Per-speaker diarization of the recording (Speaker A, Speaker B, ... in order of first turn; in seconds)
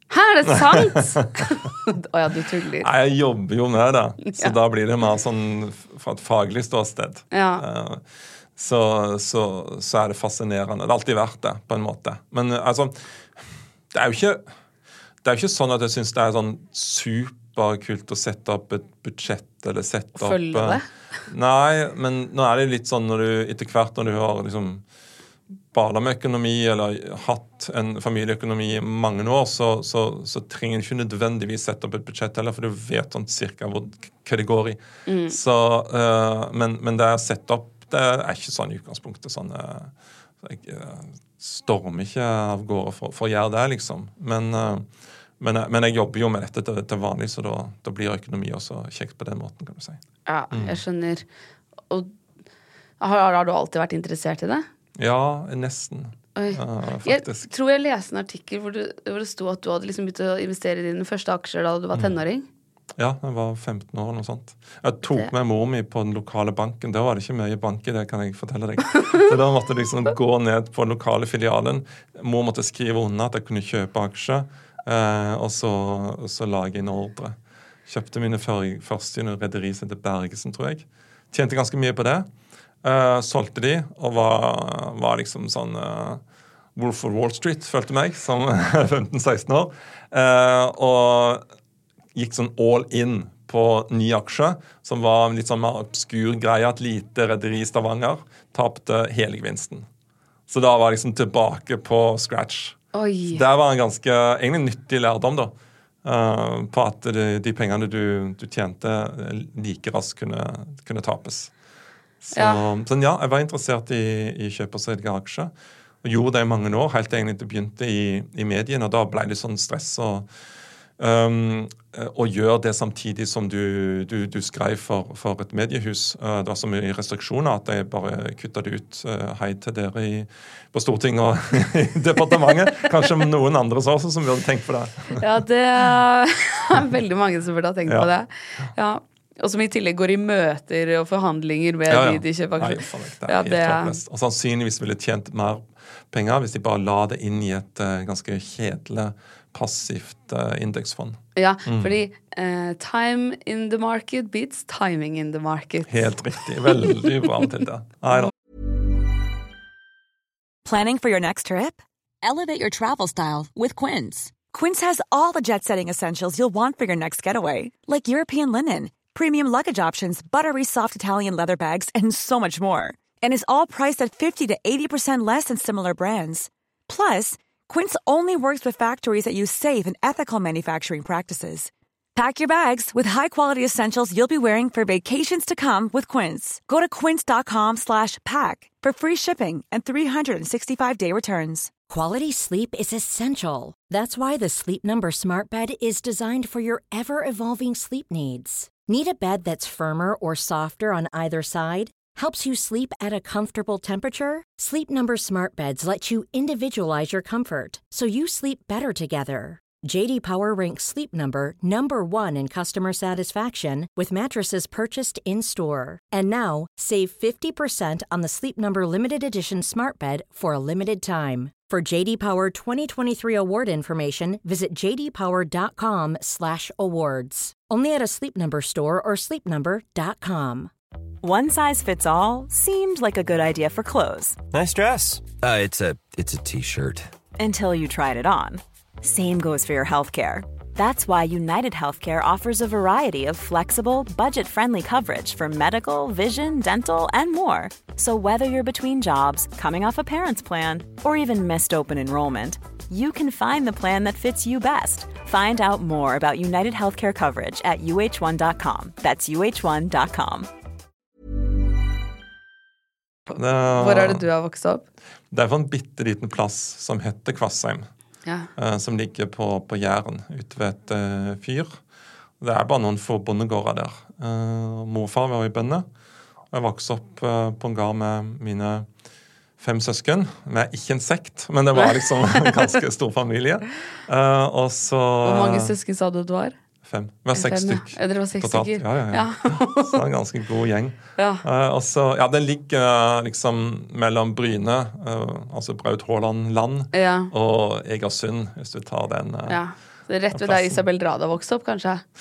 Speaker A: 0.1-2.9, 4.3-4.5, 7.3-7.7, 20.2-20.9, 35.1-35.4, 50.2-51.2, 53.0-54.7, 56.4-62.5, 102.9-103.4, 112.3-112.6, 135.2-144.0, 151.4-156.1, 263.3-264.8, 285.2-286.5, 287.3-290.0, 291.2-291.4, 296.9-297.3, 299.5-302.0
Speaker B: 0.5-1.3, 2.8-8.0, 8.6-14.4, 15.2-24.8, 25.7-44.9, 45.4-50.8, 55.0-57.5, 63.0-77.3, 77.9-82.3, 82.8-86.2, 86.8-91.4, 92.2-99.9, 100.5-102.8, 103.3-105.5, 106.0-111.5, 112.2-115.5, 116.0-120.3, 121.0-135.2, 141.9-151.9, 155.9-158.3, 263.4-264.2, 265.3-267.9, 268.6-271.8, 272.4-275.9, 276.5-278.9, 279.6-285.7, 286.9-299.6, 300.3-300.8
Speaker C: 160.7-191.7
Speaker D: 191.9-230.7
Speaker E: 231.2-234.4, 237.4-260.5
Speaker F: 234.5-237.1